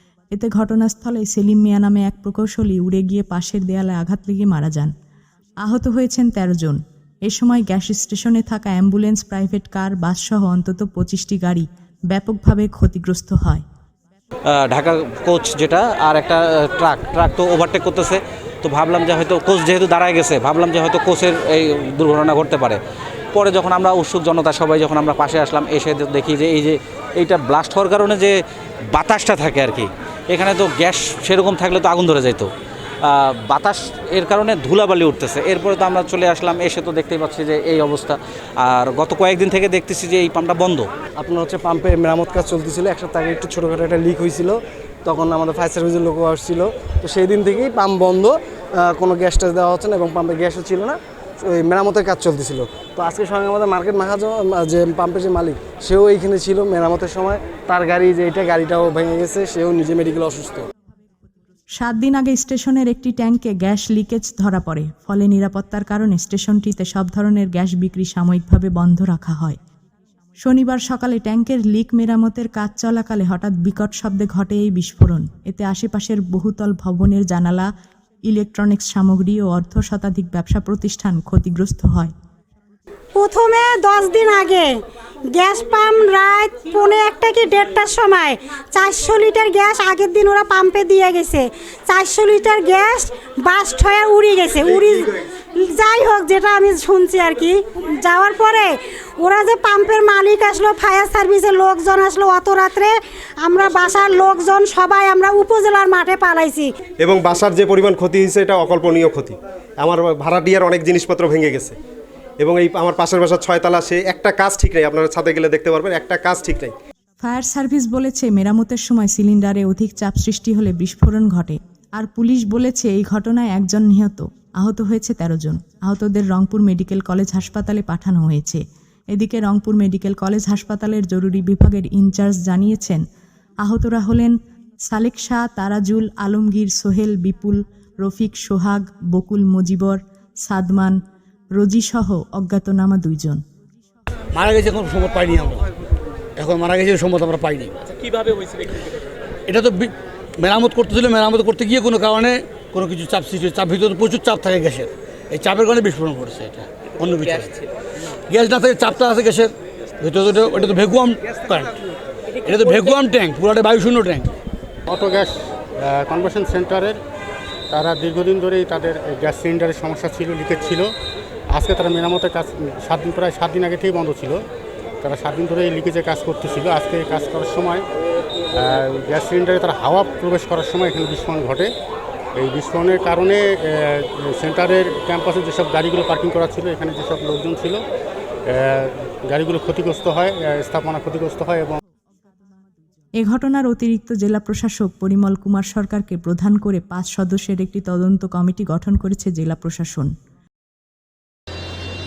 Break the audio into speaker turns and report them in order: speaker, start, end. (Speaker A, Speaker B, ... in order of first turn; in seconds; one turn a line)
Speaker A: 0.3-4.9
Speaker A: 5.6-13.7
Speaker B: 14.5-22.8
Speaker B: 23.3-28.4
Speaker B: 28.9-32.5
Speaker B: 33.1-40.9
Speaker C: 41.2-60.7
Speaker A: 61.8-69.6
Speaker A: 70.4-77.7
Speaker A: 78.3-82.1
Speaker D: 83.2-84.8
Speaker D: 85.3-106.7
Speaker E: 107.0-111.8
Speaker E: 112.4-116.8
Speaker A: 117.2-133.0
Speaker A: 133.6-134.3
Speaker A: 134.9-141.0
Speaker A: 141.6-143.4
Speaker F: 144.3-145.7
Speaker F: 146.4-148.3
Speaker F: 149.5-157.6
Speaker F: 158.3-161.8
Speaker F: 162.4-164.3
Speaker G: 164.9-165.3
Speaker G: 165.9-167.0
Speaker G: 167.7-170.9
Speaker G: 171.5-174.4
Speaker G: 175.0-177.8
Speaker G: 178.6-181.7
Speaker G: 182.4-183.4
Speaker G: 183.9-187.8
Speaker G: 189.3-191.8
Speaker A: 193.2-200.1